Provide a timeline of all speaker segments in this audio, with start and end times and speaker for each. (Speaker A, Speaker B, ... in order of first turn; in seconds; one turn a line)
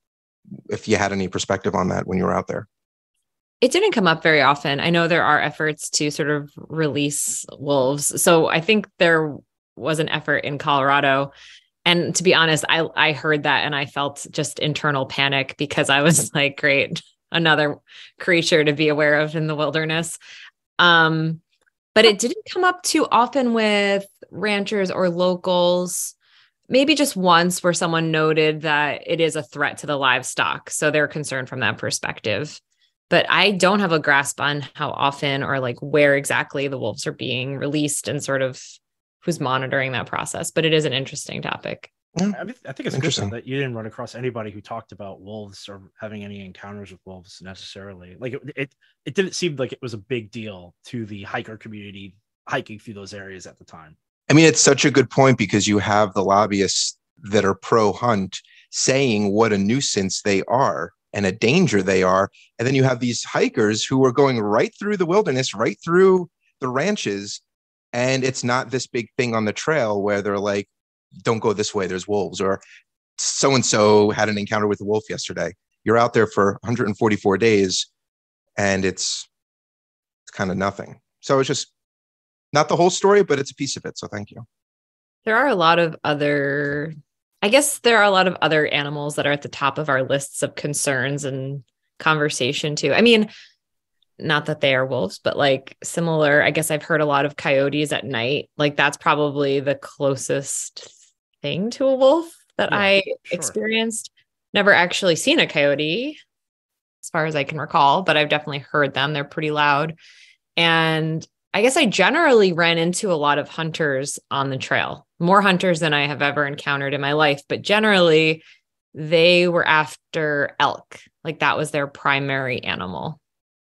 Speaker A: 0.7-2.7
Speaker B: 3.6-11.3
Speaker B: 11.8-20.2
Speaker B: 20.8-21.4
Speaker B: 21.9-26.1
Speaker B: 26.7-41.9
Speaker C: 42.3-53.9
Speaker A: 42.9-43.3
Speaker A: 54.3-67.4
Speaker A: 67.9-70.7
Speaker A: 71.2-72.6
Speaker A: 73.2-77.9
Speaker A: 78.6-79.3
Speaker A: 80.2-81.7
Speaker A: 82.5-84.5
Speaker B: 85.2-93.3
Speaker B: 94.2-106.2
Speaker C: 102.7-103.5
Speaker B: 107.0-110.0
Speaker B: 110.6-118.4
Speaker B: 118.9-123.2